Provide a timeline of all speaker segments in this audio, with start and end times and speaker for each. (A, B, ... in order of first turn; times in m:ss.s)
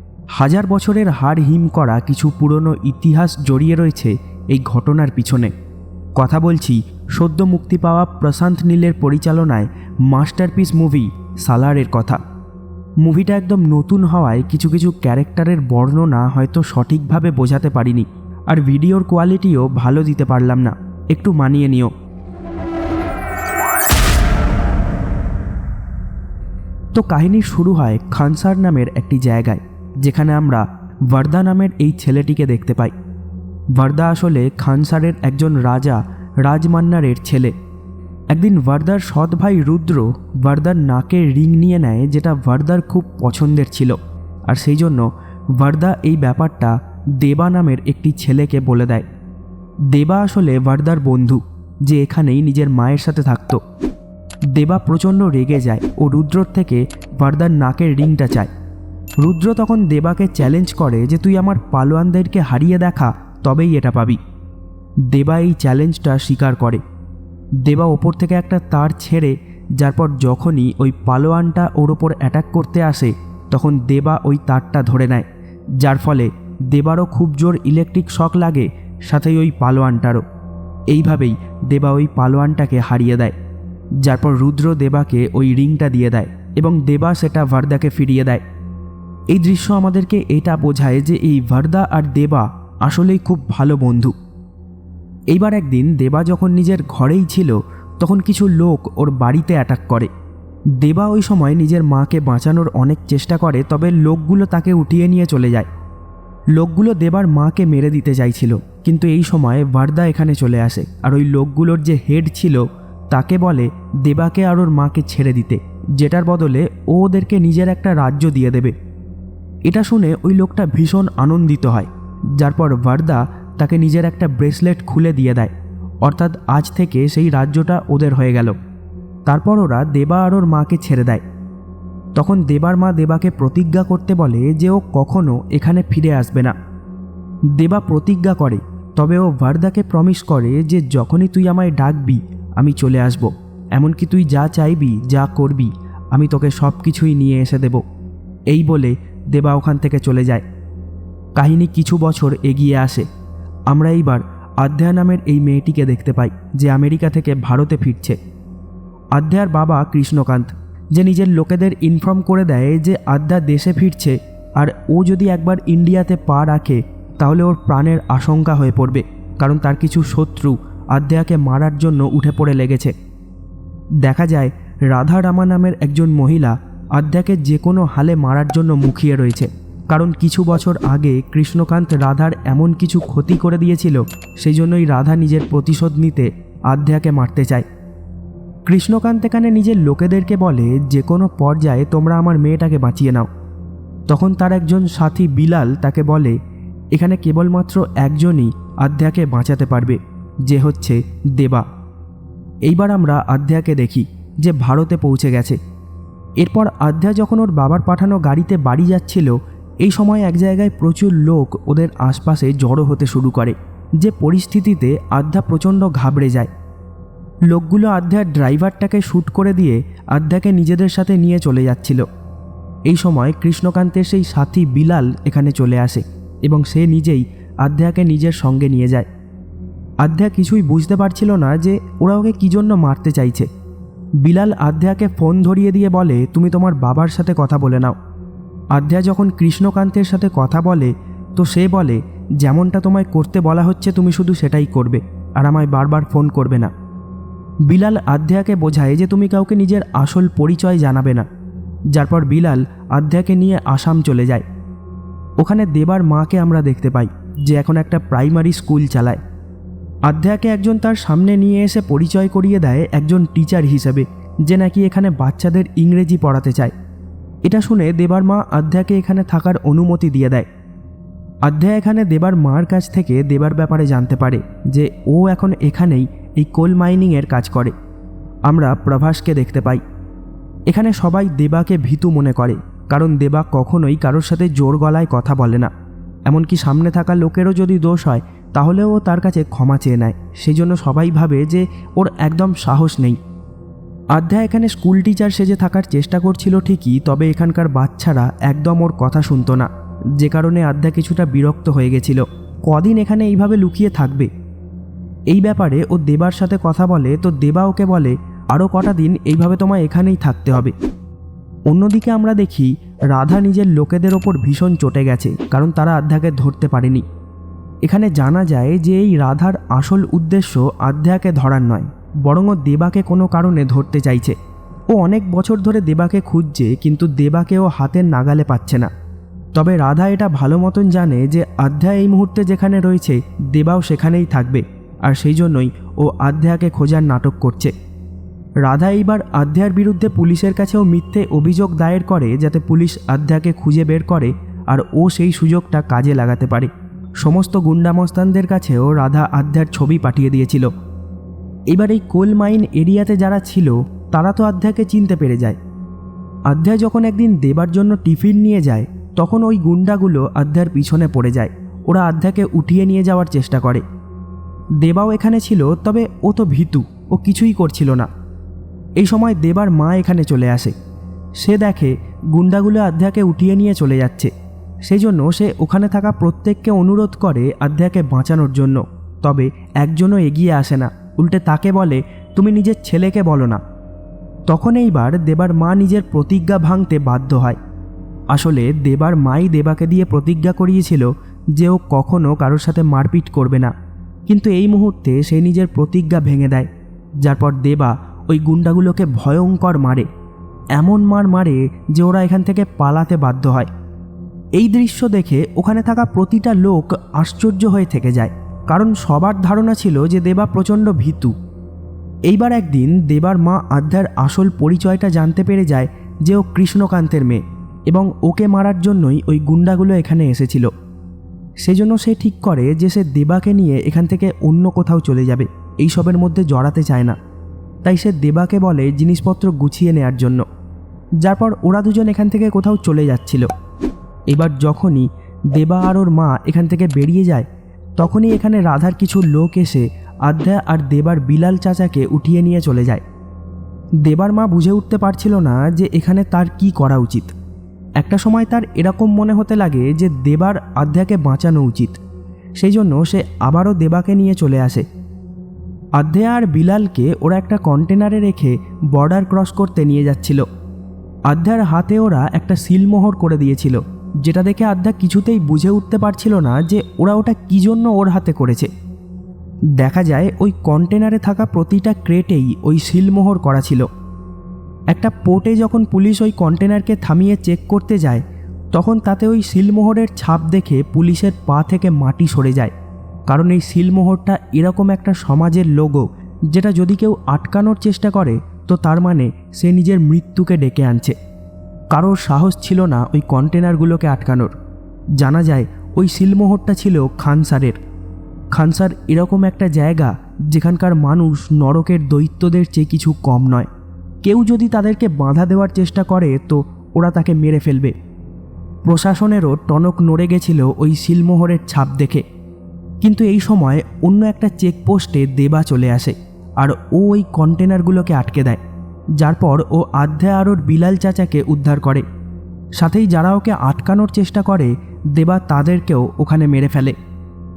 0:00.4-0:05.5 A
0:06.2-0:12.2 A
0:13.0-0:21.9 A
0:26.9-0:32.9 A
0:33.7-0:37.5 A
0:38.3-0:44.0 A
0:44.5-0:49.1 A
0:49.9-0:53.6 A
0:54.5-0:58.5 A
0:59.2-1:04.2 A
1:05.1-1:06.8 A
1:07.6-1:15.3 A
1:15.8-1:20.2 A
1:20.9-1:23.4 A
1:24.0-1:28.4 A
1:29.3-1:34.1 A
1:35.3-1:40.1 A
1:40.8-1:45.7 A
1:46.5-1:58.8 A
1:59.7-2:08.6 A
2:09.3-2:11.2 A
2:12.2-2:16.6 A
2:17.5-2:27.8 A
2:28.5-2:30.4 A
2:31.4-2:33.1 A
2:33.7-2:38.2 A
2:39.1-2:52.9 A
2:54.0-3:07.7 A
3:08.7-3:13.3 A
3:14.1-3:16.4 A
3:16.9-3:21.6 A
3:22.7-3:25.6 A
3:26.4-3:36.5 A
3:37.5-3:42.0 A
3:42.9-3:49.1 A
3:50.0-3:53.5 A
3:54.2-3:58.0 A
3:58.7-4:06.7 A
4:07.7-4:11.3 A
4:11.9-4:14.4 A
4:15.4-4:19.2 A
4:20.1-4:26.7 A
4:27.4-4:30.5 A
4:31.4-4:37.7 A
4:38.5-4:39.8 A
4:40.7-4:45.7 A
4:46.3-4:53.2 A
4:54.1-5:04.3 A
5:05.3-5:10.7 A
5:11.7-5:17.0 A
5:17.8-5:24.4 A
5:24.9-5:28.9 A
5:29.5-5:37.7 A
5:38.6-5:50.7 A
5:51.7-5:55.6 A
5:56.5-6:03.8 A
6:04.8-6:08.1 A
6:09.0-6:10.8 A
6:11.4-6:14.3 A
6:14.8-6:23.6 A
6:24.5-6:27.6 A
6:28.3-6:33.7 A
6:34.3-6:36.7 A
6:37.2-6:40.1 A
6:40.8-6:43.7 A
6:44.6-6:51.3 A
6:52.3-7:00.7 A
7:01.6-7:07.2 A
7:07.8-7:10.4 A
7:11.2-7:13.5 A
7:14.3-7:23.0 A
7:24.0-7:27.3 A
7:28.0-7:32.0 A
7:32.6-7:34.8 A
7:36.0-7:40.4 A
7:41.3-7:48.7 A
7:49.8-7:53.9 A
7:54.9-8:02.7 A
8:03.3-8:11.2 A
8:11.9-8:14.6 A
8:15.2-8:17.8 A
8:18.5-8:23.7 A
8:24.2-8:28.0 A
8:28.8-8:32.2 A
8:33.0-8:38.6 A
8:39.2-8:42.0 A
8:42.8-8:47.0 A